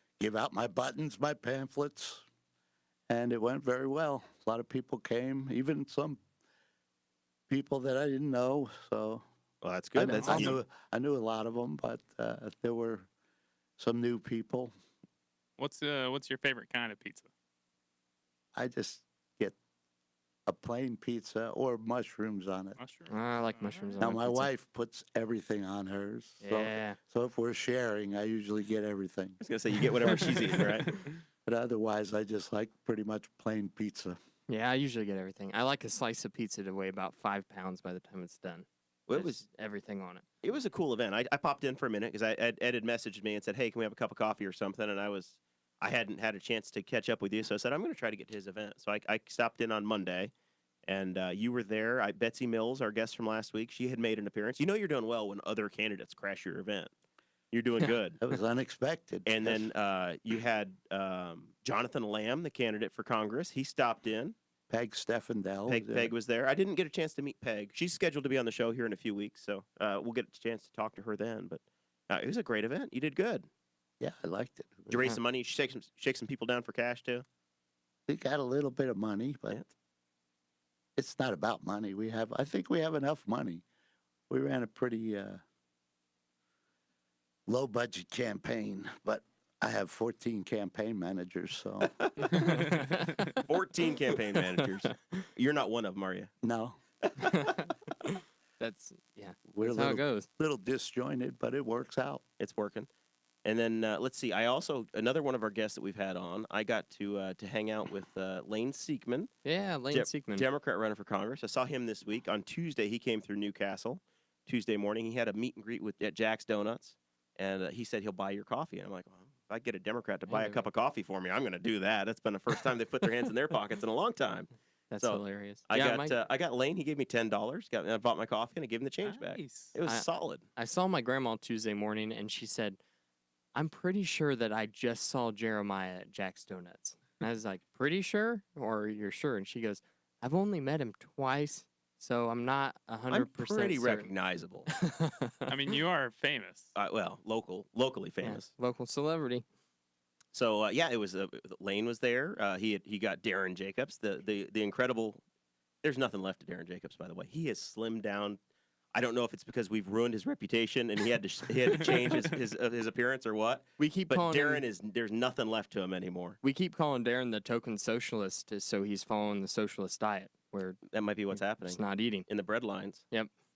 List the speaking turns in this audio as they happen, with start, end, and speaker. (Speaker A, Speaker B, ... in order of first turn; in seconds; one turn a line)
Speaker A: 0.2-2.2
Speaker A: 3.1-6.2
Speaker A: 7.5-9.2
Speaker B: 9.6-10.6
Speaker A: 9.9-13.1
Speaker C: 10.2-10.6
Speaker A: 13.8-14.7
Speaker D: 15.6-17.3
Speaker A: 18.6-19.6
Speaker A: 20.5-22.8
Speaker D: 22.8-24.1
Speaker C: 23.1-24.5
Speaker A: 24.0-29.4
Speaker C: 26.4-27.0
Speaker B: 29.4-31.0
Speaker A: 30.0-30.6
Speaker A: 31.4-34.2
Speaker C: 34.5-40.2
Speaker B: 39.1-39.4
Speaker B: 40.4-50.3
Speaker B: 50.9-56.9
Speaker B: 57.5-58.2
Speaker A: 58.2-59.7
Speaker B: 59.3-64.3
Speaker A: 64.7-66.1
Speaker B: 65.7-73.5
Speaker A: 74.0-75.2
Speaker B: 74.9-77.2
Speaker A: 78.1-79.6
Speaker A: 81.0-83.6
Speaker A: 84.3-85.4
Speaker A: 87.5-92.3
Speaker B: 92.0-92.3
Speaker C: 92.4-93.4
Speaker B: 93.5-96.3
Speaker A: 96.4-96.8
Speaker B: 97.0-97.3
Speaker C: 97.2-100.3
Speaker A: 99.5-102.2
Speaker B: 102.4-102.9
Speaker B: 103.4-109.3
Speaker C: 109.4-110.5
Speaker B: 109.9-130.5
Speaker C: 120.3-120.7
Speaker C: 124.9-126.1
Speaker D: 129.0-129.8
Speaker C: 129.8-132.8
Speaker C: 133.5-144.1
Speaker B: 143.1-144.7
Speaker C: 144.7-145.5
Speaker D: 145.5-146.7
Speaker B: 146.8-148.5
Speaker C: 148.2-149.4
Speaker B: 150.3-155.2
Speaker B: 155.8-158.4
Speaker B: 158.9-166.4
Speaker C: 163.8-164.6
Speaker C: 166.4-172.3
Speaker B: 170.9-173.1